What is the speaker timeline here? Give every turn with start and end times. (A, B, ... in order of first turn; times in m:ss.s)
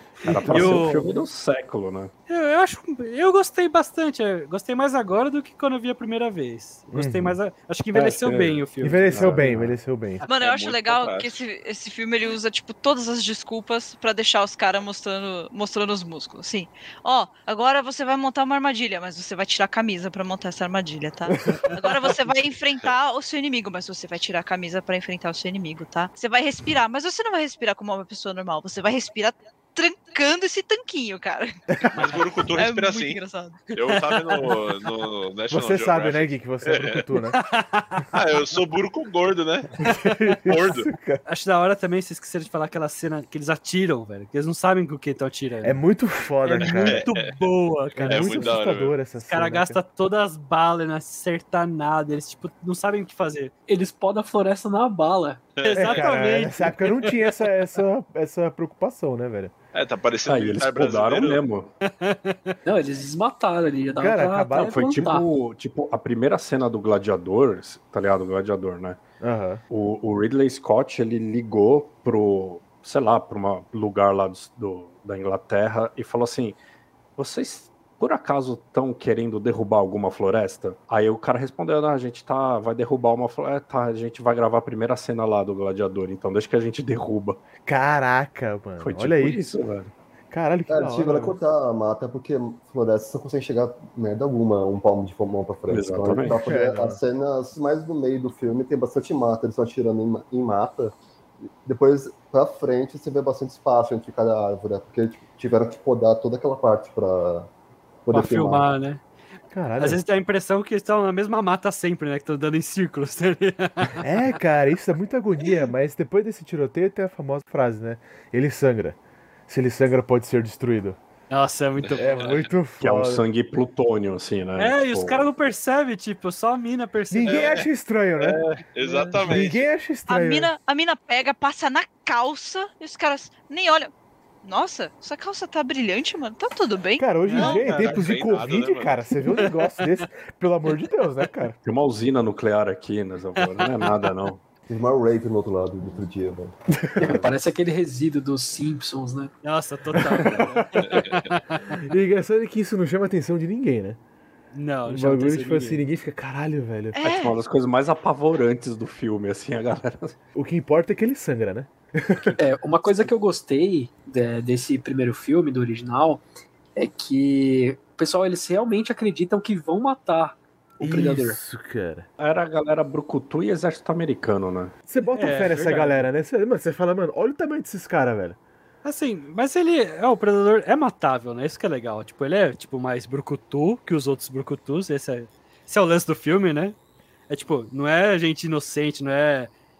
0:00.2-0:02.1 A
0:00.2-0:01.2 B
0:00.3-0:00.8 C
0:02.3-0:09.5 B
0:06.9-0:07.4 C
0:07.9-0:09.8 A
0:08.8-0:10.2 C
0:10.2-0:31.6 D
0:10.3-0:11.4 E
0:21.3-0:21.9 C
0:31.9-0:33.2 E
0:32.6-0:33.6 D
0:33.7-0:37.0 E
0:33.9-0:34.7 B
0:35.5-0:37.4 C
0:37.3-0:38.4 B
0:38.1-0:39.9 E
0:39.8-0:41.2 C
0:40.5-0:40.9 E
0:41.3-0:45.8 B
0:45.6-0:47.1 C
0:46.5-0:48.6 B
0:46.6-0:47.3 E
0:48.0-0:49.8 C
0:48.1-0:49.0 E
0:49.2-0:53.5 B
0:53.7-0:55.4 F
0:55.6-0:56.0 E
0:55.6-0:57.3 B
0:55.9-0:59.5 C
0:59.7-1:01.4 E
1:00.3-1:01.7 A
1:01.8-1:02.5 B
1:02.6-1:05.2 F
1:04.0-1:04.9 C
1:04.6-1:09.0 A
1:09.2-1:09.6 C
1:09.7-1:16.6 A
1:17.2-1:27.4 A
1:27.6-1:29.4 C
1:28.8-1:29.9 A
1:30.3-1:31.4 C
1:30.7-1:41.0 G
1:35.7-1:36.4 A
1:36.3-1:37.0 C
1:41.6-1:47.5 G
1:48.1-1:48.7 G
1:48.1-1:49.0 B
1:49.5-1:50.0 C
1:49.8-1:54.1 B
1:54.0-1:59.0 C
1:59.5-2:01.0 C
2:01.3-2:02.5 B
2:02.0-2:03.2 C
2:02.8-2:05.3 A
2:04.6-2:07.6 B
2:07.1-2:08.4 C
2:07.2-2:07.7 E
2:08.2-2:09.7 E
2:08.8-2:09.3 B
2:09.2-2:10.5 C
2:10.1-2:13.9 D
2:14.4-2:17.6 D
2:17.0-2:21.6 C
2:17.2-2:18.1 B
2:17.6-2:18.9 E
2:19.2-2:19.9 B
2:21.6-2:24.4 A
2:23.4-2:23.7 B
2:24.7-2:26.6 G
2:27.0-2:29.3 F
2:27.1-2:27.4 A
2:29.4-2:31.8 B
2:30.8-2:31.2 E
2:31.8-2:34.0 C
2:34.5-2:35.8 B
2:34.8-2:37.0 C
2:36.9-2:37.4 D
2:37.0-2:40.2 A
2:40.4-2:42.4 C
2:42.4-2:46.2 F
2:46.8-2:51.4 F
2:50.8-2:52.1 C
2:52.2-2:54.7 A
2:54.9-2:58.4 C
2:55.1-2:56.1 B
2:58.8-3:06.8 B
3:07.3-3:09.5 B